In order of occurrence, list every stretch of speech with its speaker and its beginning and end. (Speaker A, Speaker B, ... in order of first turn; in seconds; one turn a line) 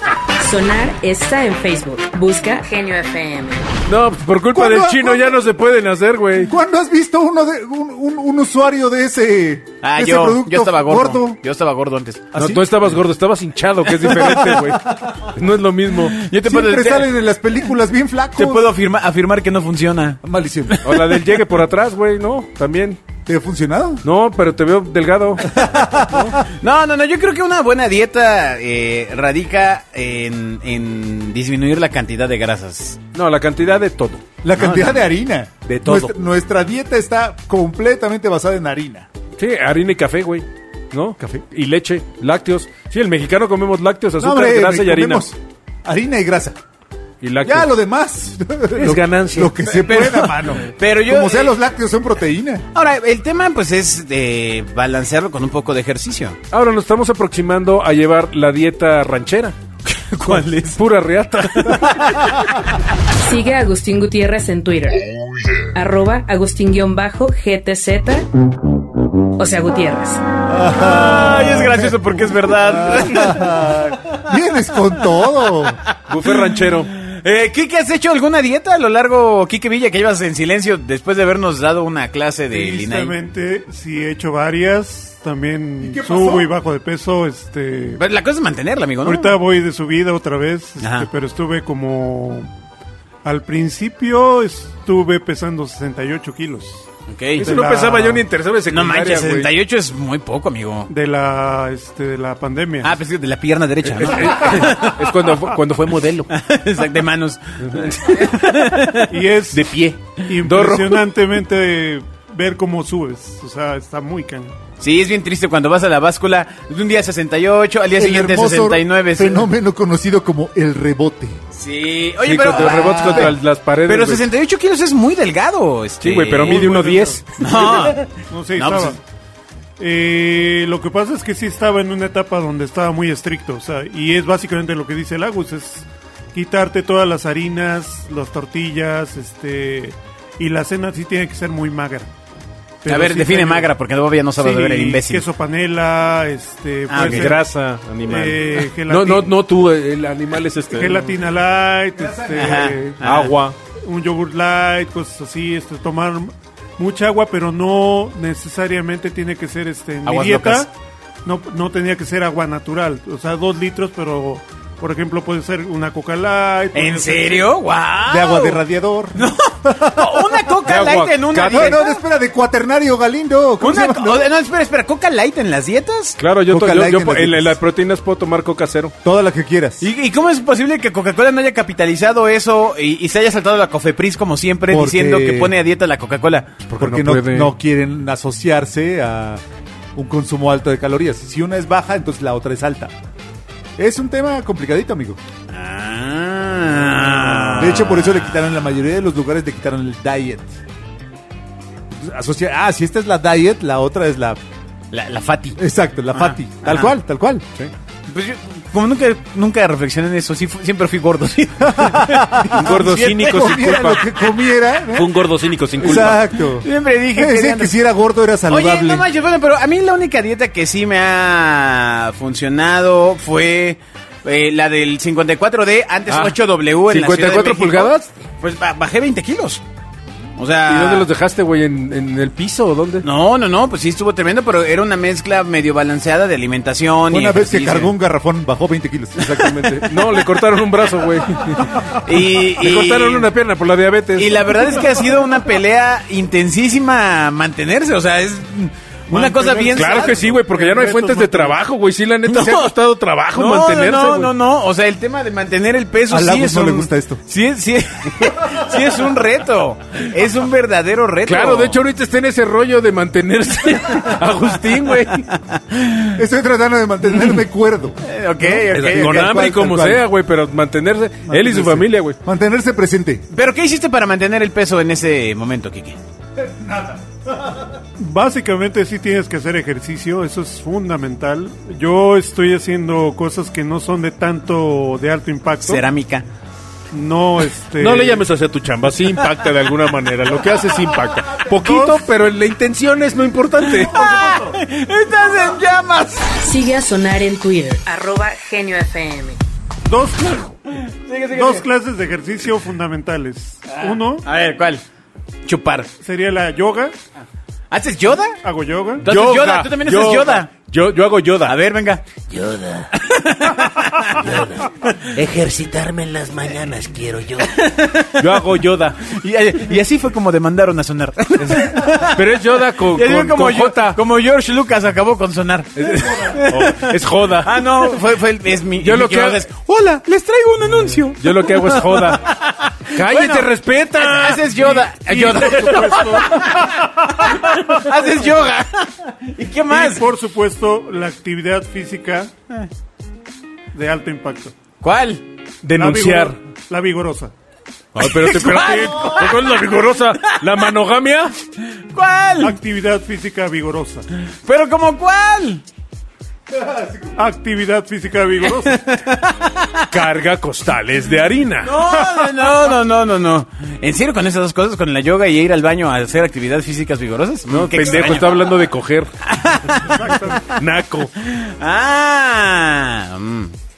Speaker A: 0.3-3.6
Speaker B: 3.9-6.5
Speaker C: 4.5-5.4
Speaker C: 6.4-11.4
Speaker D: 9.8-12.3
Speaker C: 12.3-12.7
Speaker B: 12.3-16.2
Speaker C: 14.0-15.2
Speaker D: 14.1-14.6
Speaker D: 16.1-17.1
Speaker C: 16.4-18.7
Speaker D: 18.4-21.2
Speaker C: 20.2-20.8
Speaker B: 20.8-23.0
Speaker C: 23.2-24.0
Speaker B: 24.0-26.3
Speaker C: 25.4-26.4
Speaker D: 26.5-33.0
Speaker B: 33.1-34.9
Speaker C: 34.4-39.1
Speaker B: 35.7-36.1
Speaker B: 39.4-45.3
Speaker C: 41.2-41.4
Speaker C: 44.2-46.6
Speaker B: 47.2-47.7
Speaker C: 47.4-52.6
Speaker B: 48.7-49.6
Speaker D: 49.7-51.5
Speaker D: 52.7-56.4
Speaker B: 56.5-59.5
Speaker D: 59.9-60.8
Speaker B: 60.2-62.1
Speaker D: 61.4-62.5
Speaker A: 63.1-65.0
Speaker A: 65.6-68.3
Speaker A: 69.4-70.2
Speaker C: 70.5-75.8
Speaker D: 70.8-74.2
Speaker D: 75.8-83.1
Speaker B: 76.1-76.9
Speaker E: 82.5-88.0
Speaker C: 85.8-86.5
Speaker D: 88.0-89.3
Speaker E: 89.0-92.5
Speaker D: 90.8-91.1
Speaker E: 93.2-96.8
Speaker D: 97.1-97.5
Speaker B: 97.4-99.5
Speaker E: 97.4-98.2
Speaker D: 98.7-100.9
Speaker E: 100.9-102.9
Speaker D: 102.8-105.3
Speaker B: 103.8-106.3
Speaker D: 106.3-109.1
Speaker B: 107.6-108.1
Speaker E: 109.1-109.7
Speaker B: 109.5-111.0
Speaker E: 110.2-114.5
Speaker D: 114.8-119.5
Speaker C: 117.9-121.4
Speaker D: 121.5-126.7
Speaker B: 122.2-124.2
Speaker C: 122.5-123.3
Speaker B: 126.0-127.8
Speaker E: 126.5-129.0
Speaker D: 127.4-129.0
Speaker E: 129.8-142.1
Speaker E: 142.8-143.7
Speaker D: 142.8-145.2
Speaker E: 144.4-147.5
Speaker D: 146.9-147.3
Speaker B: 146.9-151.2
Speaker E: 148.0-149.3
Speaker E: 150.7-153.0
Speaker C: 151.9-152.7
Speaker D: 152.4-153.3
Speaker B: 153.0-153.6
Speaker E: 153.8-160.7
Speaker D: 160.0-160.7
Speaker E: 161.2-167.5
Speaker D: 166.7-168.6
Speaker C: 168.0-170.7
Speaker D: 169.1-172.0
Speaker B: 170.6-171.8
Speaker C: 171.5-174.3
Speaker D: 173.6-176.2
Speaker B: 176.2-178.9
Speaker C: 176.4-177.6
Speaker C: 179.0-179.9
Speaker D: 179.8-186.6
Speaker C: 184.7-185.5
Speaker C: 186.7-189.4
Speaker B: 186.8-187.5
Speaker C: 189.9-192.9
Speaker C: 193.8-195.2
Speaker D: 195.5-198.5
Speaker B: 197.2-197.6
Speaker C: 197.5-200.5
Speaker C: 201.9-204.4
Speaker D: 204.9-205.6
Speaker C: 205.6-207.4
Speaker D: 206.1-206.9
Speaker D: 208.1-213.5
Speaker C: 211.6-215.2
Speaker B: 212.5-214.0
Speaker B: 214.9-216.2
Speaker C: 215.8-219.1
Speaker D: 215.8-217.7
Speaker D: 218.5-229.6
Speaker B: 226.1-226.3
Speaker B: 226.9-228.1
Speaker D: 230.4-231.1
Speaker B: 230.7-233.1
Speaker D: 233.0-237.9
Speaker C: 237.1-239.8
Speaker B: 239.2-244.5
Speaker D: 241.5-243.3
Speaker D: 244.2-250.3
Speaker E: 249.1-251.6
Speaker B: 249.7-254.3
Speaker D: 252.2-252.7
Speaker D: 253.3-261.8
Speaker C: 256.1-257.2
Speaker B: 261.2-265.3
Speaker D: 264.1-266.2
Speaker C: 266.1-270.1
Speaker D: 268.0-269.5
Speaker B: 268.7-272.2
Speaker C: 271.2-273.2
Speaker D: 273.3-276.0
Speaker C: 276.4-277.8
Speaker E: 278.0-285.8
Speaker D: 285.6-286.2
Speaker E: 286.9-288.2
Speaker B: 287.8-294.1
Speaker E: 291.5-292.0
Speaker D: 293.6-296.3
Speaker E: 293.9-294.6
Speaker A: 296.4-299.4
Speaker E: 299.8-300.6
Speaker D: 300.9-301.6
Speaker E: 301.3-304.2
Speaker D: 303.6-304.8
Speaker D: 305.4-305.9
Speaker E: 306.0-306.9
Speaker D: 307.7-308.4
Speaker E: 308.4-309.1
Speaker D: 309.0-310.5
Speaker B: 309.0-311.5
Speaker D: 311.4-312.0
Speaker F: 312.3-312.9
Speaker D: 312.9-314.2
Speaker F: 314.1-317.6
Speaker D: 317.5-340.0
Speaker B: 318.2-319.1
Speaker B: 321.4-324.0
Speaker B: 325.8-327.7
Speaker B: 328.8-329.4
Speaker B: 331.2-334.8
Speaker E: 334.6-337.9
Speaker E: 339.7-342.3
Speaker E: 343.7-344.5
Speaker D: 344.8-345.2
Speaker B: 345.6-346.4
Speaker E: 345.7-347.3
Speaker D: 347.9-350.7
Speaker B: 347.9-351.3
Speaker D: 351.8-352.6
Speaker E: 352.4-354.0
Speaker D: 354.4-355.6
Speaker C: 356.5-357.1
Speaker E: 357.1-358.8
Speaker D: 358.6-359.9
Speaker B: 359.9-361.8
Speaker D: 361.6-368.7
Speaker B: 367.5-369.1
Speaker D: 369.2-370.4
Speaker E: 369.9-370.5
Speaker B: 370.5-371.1
Speaker D: 371.2-373.5